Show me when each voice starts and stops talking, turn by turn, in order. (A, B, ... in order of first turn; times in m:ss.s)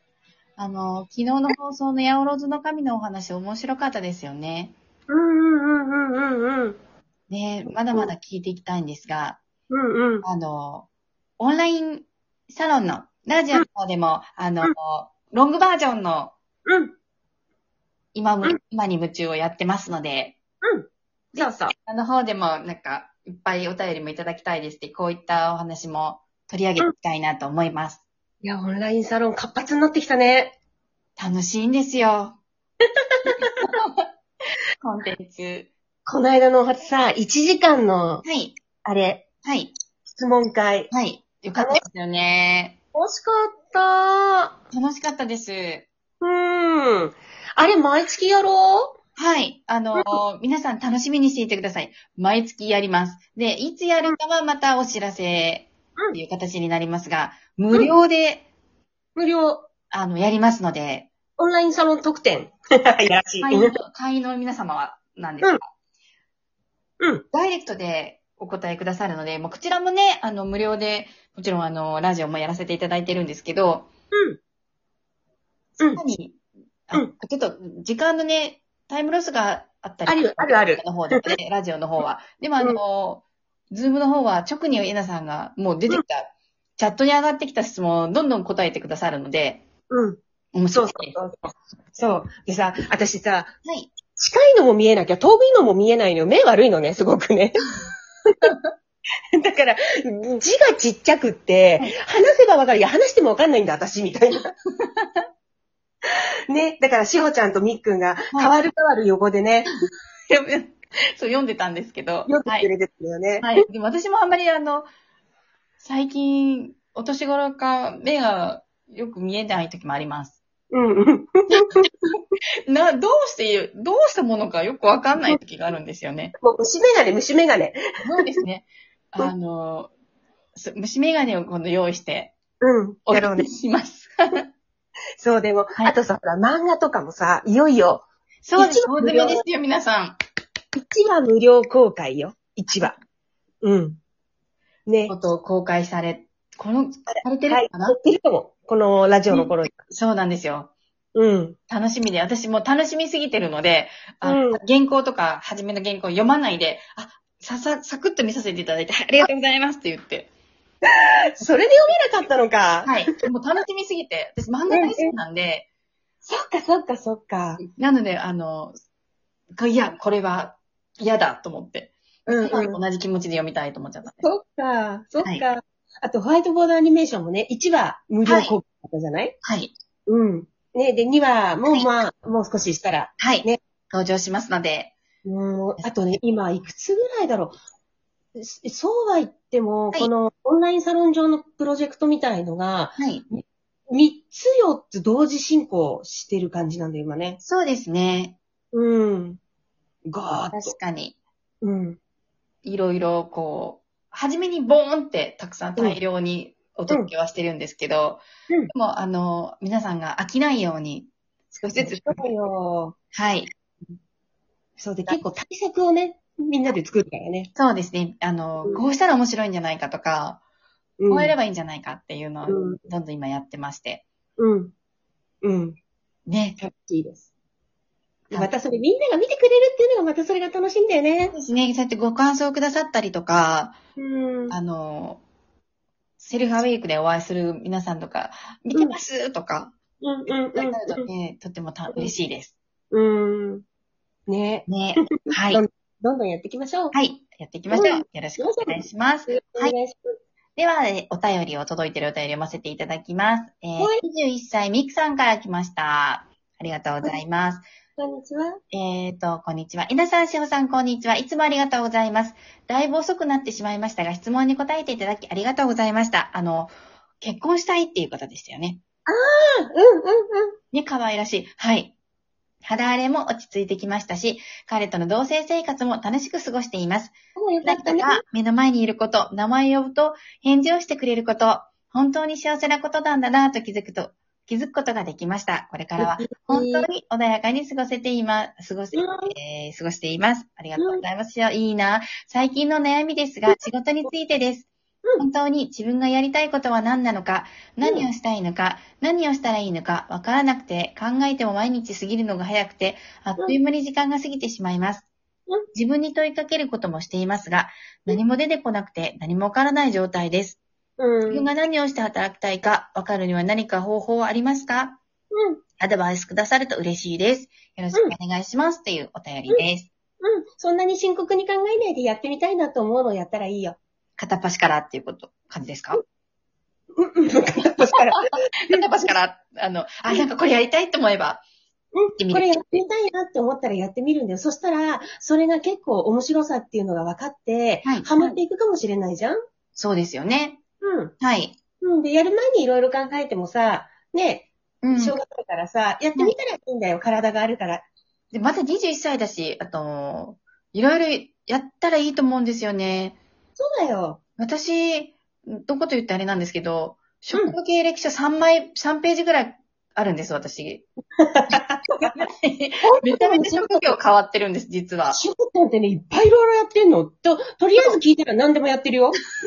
0:00.6-0:04.8 A
0:05.1-0:06.8 B
0:07.3-0:09.4 A
0:09.7-0:10.2 B
0:10.2-0:10.9 A
0:11.4-0:16.4 A
0:16.7-0:16.9 B
0:18.2-0:20.4 A
0:20.6-0:21.7 B
0:21.4-0:28.0 A
0:28.4-0:30.6 B
0:31.2-0:32.4 A
0:33.2-0:33.5 B
0:33.3-0:34.1 A
0:34.8-0:35.7 A
0:36.1-0:38.2 B
0:38.2-0:38.6 A
0:38.8-0:39.2 B
0:39.4-0:39.7 A
0:40.1-0:40.9 B
0:40.9-0:42.8 A
0:41.6-0:41.8 B
0:43.0-0:44.6 B
0:44.7-0:45.9 A
0:46.2-0:49.0 B
0:49.2-0:58.5 A
0:50.0-0:50.2 B
0:59.2-0:59.7 B
0:59.9-1:01.1 A
1:01.4-1:03.8 B
1:03.4-1:05.6 A
1:07.3-1:13.9 A
1:14.1-1:14.4 B
1:16.0-1:29.6 A
1:20.1-1:21.3 B
1:29.9-1:30.2 B
1:30.5-1:31.2 A
1:30.7-1:33.5 B
1:33.6-1:33.9 A
1:34.2-1:37.6 B
1:39.4-1:44.5 B
1:44.8-1:45.2 A
1:46.5-1:49.7 B
1:50.3-1:52.7 A
1:52.3-1:53.6 B
1:53.4-1:54.9 A
1:55.8-2:00.4 A
2:00.7-2:01.9 B
2:01.5-2:06.3 A
2:06.4-2:07.8 B
2:08.0-2:09.9 A
2:10.6-2:12.3 A
2:12.6-2:13.5 B
2:13.1-2:14.4 A
2:15.2-2:18.0 B
2:18.4-2:20.2 A
2:18.6-2:19.4 B
2:20.7-2:23.0 B
2:23.6-2:24.0 B
2:24.9-2:25.1 B
2:25.1-2:28.0 A
2:27.4-2:29.7 B
2:29.3-2:30.7 A
2:31.2-2:31.6 B
2:31.7-2:40.3 A
2:34.2-2:34.6 B
2:40.9-2:43.0 B
2:42.8-2:45.7 A
2:44.7-2:45.2 B
2:46.2-2:47.6 B
2:47.6-2:48.8 A
2:49.6-2:54.3 A
2:52.3-2:52.8 B
2:54.1-2:59.4 B
2:58.2-2:58.6 A
2:59.4-2:59.7 A
3:00.1-3:03.6 B
3:03.2-3:04.9 A
3:05.2-3:07.6 B
3:08.4-3:17.4 B
3:13.0-3:13.2 A
3:17.4-3:18.4 A
3:18.7-3:19.4 B
3:20.1-3:20.8 B
3:20.5-3:21.2 A
3:21.6-3:22.0 B
3:22.6-3:32.4 A
3:31.8-3:33.0 B
3:33.1-3:33.5 A
3:34.8-3:37.5 B
3:37.6-3:40.4 A
3:41.0-3:41.4 B
3:41.1-3:44.0 A
3:42.4-3:42.8 B
3:44.4-3:44.7 B
3:45.4-3:45.8 B
3:46.3-3:46.6 A
3:46.6-3:47.3 B
3:48.3-3:51.4 B
3:51.3-3:53.8 A
3:54.0-3:54.6 B
3:54.5-3:55.2 A
3:56.2-3:59.7 A
4:00.0-4:01.1 B
4:00.6-4:02.6 A
4:02.9-4:03.6 B
4:04.3-4:06.9 B
4:04.7-4:05.6 A
4:06.9-4:09.8 A
4:07.7-4:10.1 B
4:10.6-4:17.7 A
4:13.8-4:14.0 B
4:18.0-4:18.6 B
4:18.7-4:28.8 A
4:29.1-4:30.5 B
4:30.7-4:31.9 A
4:32.6-5:05.1 A
4:37.4-4:38.2 B
4:46.0-4:46.9 B
4:48.9-4:49.3 B
4:50.8-4:51.0 B
4:53.5-4:54.1 B
5:05.7-5:10.6 A
5:11.0-5:11.5 B
5:11.3-5:15.0 A
5:15.3-5:15.6 B
5:15.8-5:19.9 A
5:20.2-5:23.8 B
5:24.2-5:26.0 A
5:27.0-5:28.8 B
5:27.8-5:31.4 A
5:32.0-5:39.4 B
5:32.2-5:32.8 A
5:37.8-5:38.4 A
5:39.8-5:40.6 A
5:40.8-5:41.1 B
5:41.2-5:41.6 A
5:41.8-5:47.8 B
5:44.8-5:45.2 A
5:48.3-5:53.2 A
5:53.6-5:54.2 B
5:54.4-6:00.8 A
6:01.2-6:02.1 B
6:01.5-6:05.2 A
6:02.8-6:04.0 B
6:05.1-6:09.2 B